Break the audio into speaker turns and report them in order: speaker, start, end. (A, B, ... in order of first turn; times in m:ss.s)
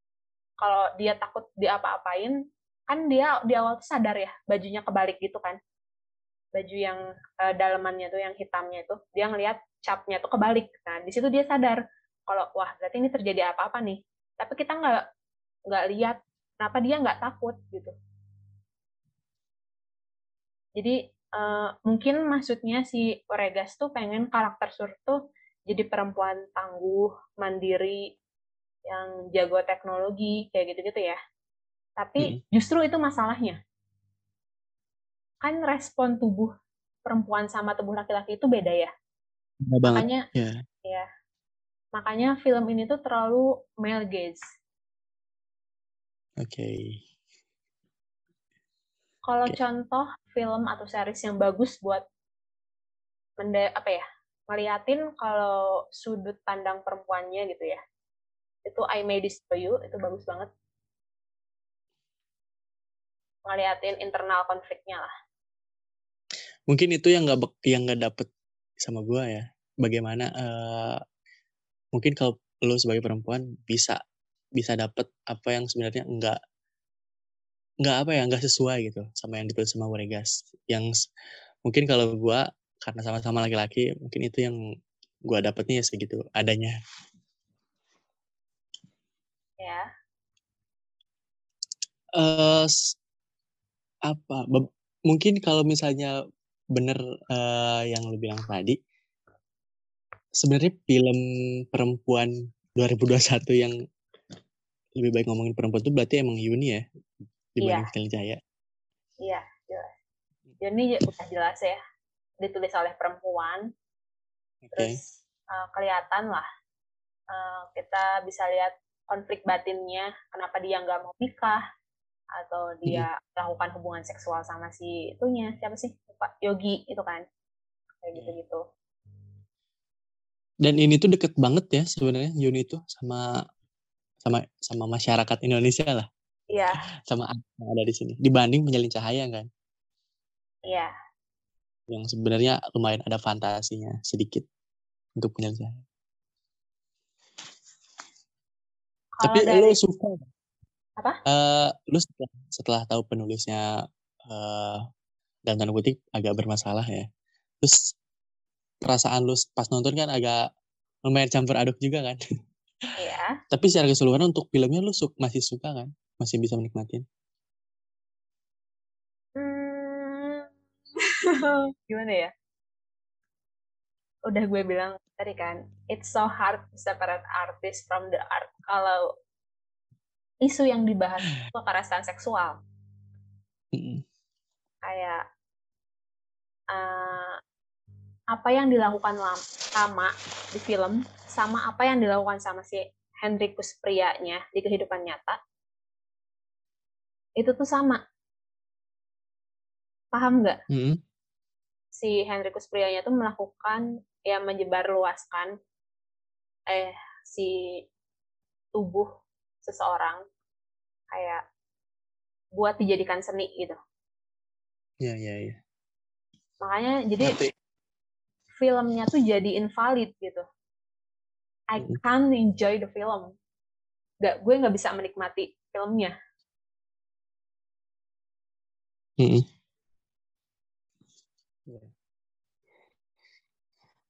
0:00.6-0:02.4 A
0:02.9-0:05.6 A
0:06.6-0:15.0 A
0:15.7-0:17.9 A
0:20.8-0:28.1 A
0:28.9-0:31.2 A
0:32.0-0:33.6 A
0:35.4-0:36.5 A
0:37.1-0:38.9 A
0:39.6-0:40.6 B
0:39.9-0:40.2 A
0:42.0-0:44.4 A
0:46.4-0:47.0 B
0:49.3-0:52.0 A
0:53.4-0:57.8 A
0:58.6-1:00.5 A
1:03.5-1:05.1 A
1:06.7-1:08.3 B
1:08.8-1:11.0 B
1:11.9-1:14.0 B
1:14.6-1:16.4 B
1:17.8-1:20.9 B
1:21.6-1:24.6 B
1:25.3-1:26.8 B
1:29.6-1:29.9 A
1:32.2-1:32.7 B
1:34.1-1:36.1 B
1:36.8-1:38.8 B
1:40.4-1:41.2 B
1:41.7-1:43.8 B
1:45.0-1:46.8 B
1:47.6-1:48.4 B
1:47.6-1:47.9 A
1:49.2-1:49.9 A
1:50.6-1:51.8 A
1:52.4-1:53.7 A
1:54.6-1:55.0 B
1:54.8-1:56.4 A
1:57.3-2:01.6 A
2:02.4-2:07.2 A
2:08.0-2:08.6 A
2:10.6-2:13.3 B
2:14.2-2:16.1 B
2:16.5-2:16.8 A
2:17.1-2:19.5 B
2:21.9-2:24.4 B
2:25.2-2:25.8 B
2:29.2-2:29.8 A
2:29.2-2:30.2 B
2:31.3-2:33.6 B
2:34.3-2:34.8 B
2:35.4-2:37.1 B
2:38.8-2:40.4 B
2:41.1-2:42.2 B
2:42.9-2:43.4 A
2:43.5-2:47.0 B
2:49.4-2:50.5 A
2:51.2-2:52.3 A
2:54.3-2:59.0 A
3:00.4-3:02.6 A
3:03.7-3:04.0 B
3:04.8-3:05.2 A
3:06.7-3:07.4 A
3:08.3-3:15.4 A
3:17.4-3:18.0 A
3:20.1-3:20.6 A
3:20.7-3:21.0 B
3:22.0-3:25.5 A
3:26.7-3:27.6 A
3:28.8-3:29.1 A
3:29.6-3:30.2 A
3:31.1-3:31.4 A
3:32.6-3:33.8 A
3:35.0-3:35.6 B
3:36.6-3:37.4 A
3:37.2-3:37.5 B
3:38.6-3:40.4 A
3:41.7-3:43.3 A
3:44.2-3:46.1 A
3:49.2-3:49.4 B